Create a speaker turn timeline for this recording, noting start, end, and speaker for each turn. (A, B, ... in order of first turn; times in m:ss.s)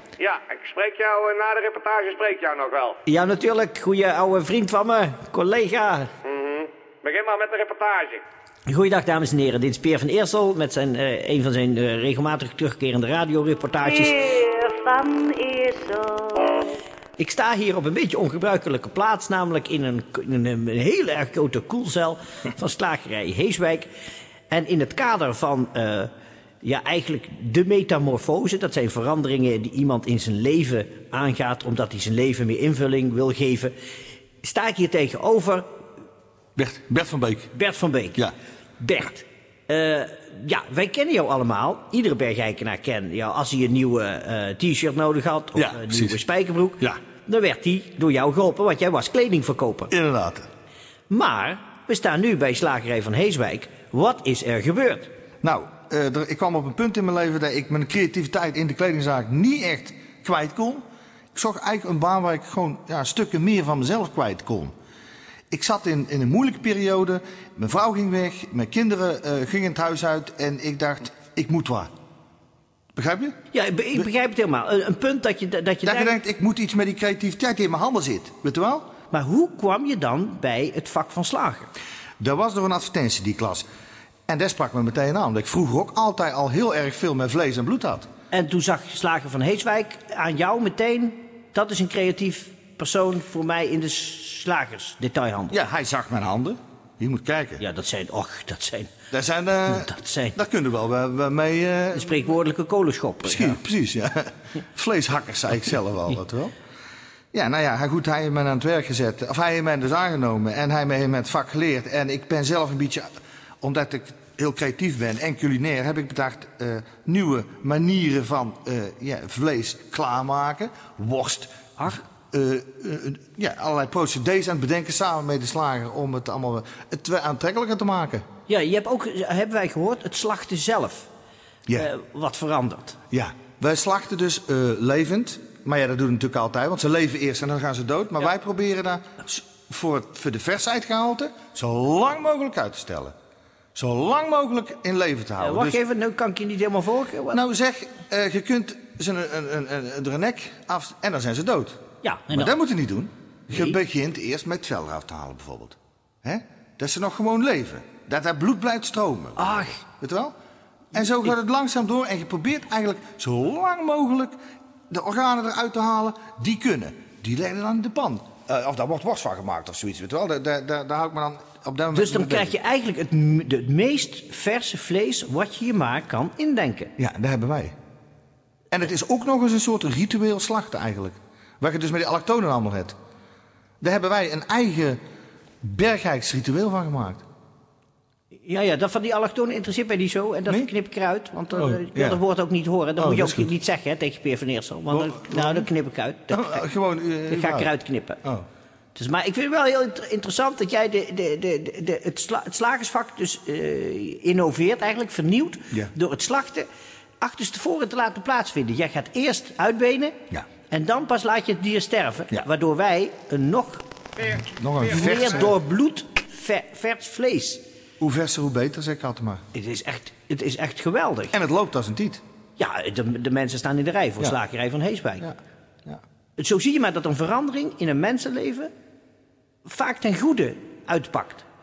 0:00.2-0:03.0 A
0:03.0-0:06.1 B
0:06.2-0:08.2 A
0:08.7-0:14.2 B
0:13.8-0:16.5 C
0:17.2-0:23.9 B
0:24.5-0:26.1 B
0:26.6-0:33.7 B
0:34.4-0:35.7 B
0:36.6-0:37.5 D
0:37.5-0:49.9 B
0:45.6-0:46.2 D
0:49.9-0:50.5 D
0:51.1-0:55.1 B
0:55.4-1:04.7 D
1:05.5-1:11.9 D
1:12.9-1:13.4 D
1:13.5-1:16.2 B
1:15.8-1:18.9 D
1:19.1-1:21.7 B
1:22.2-1:23.6 D
1:24.3-1:28.1 D
1:28.3-1:35.6 B
1:35.5-1:37.6 D
1:37.6-1:38.9 B
1:39.1-1:42.2 D
1:39.7-1:40.4 B
1:41.9-1:43.6 B
1:43.2-1:46.6 D
1:47.3-1:53.1 D
1:53.6-2:08.2 D
2:08.5-2:11.1 B
2:11.8-2:13.0 B
2:13.1-2:23.1 D
2:23.7-2:25.8 D
2:25.4-2:27.4 B
2:27.3-2:40.3 D
2:32.0-2:32.5 B
2:33.5-2:33.8 B
2:39.4-2:39.8 B
2:40.9-2:44.4 D
2:44.9-2:52.5 D
2:51.9-2:56.9 B
2:57.0-2:57.7 D
2:58.7-3:03.0 D
3:03.8-3:05.0 D
3:05.6-3:07.2 D
3:08.4-3:16.6 B
3:11.5-3:12.2 D
3:13.0-3:13.5 D
3:14.9-3:15.7 D
3:16.3-3:17.7 D
3:17.3-3:18.2 B
3:18.9-3:26.7 B
3:27.2-3:33.8 B
3:34.4-3:35.5 D
3:34.8-3:37.6 B
3:38.0-3:39.4 D
3:39.5-3:41.3 B
3:41.3-3:42.2 D
3:42.6-3:45.3 B
3:46.4-3:48.7 B
3:49.6-3:51.4 B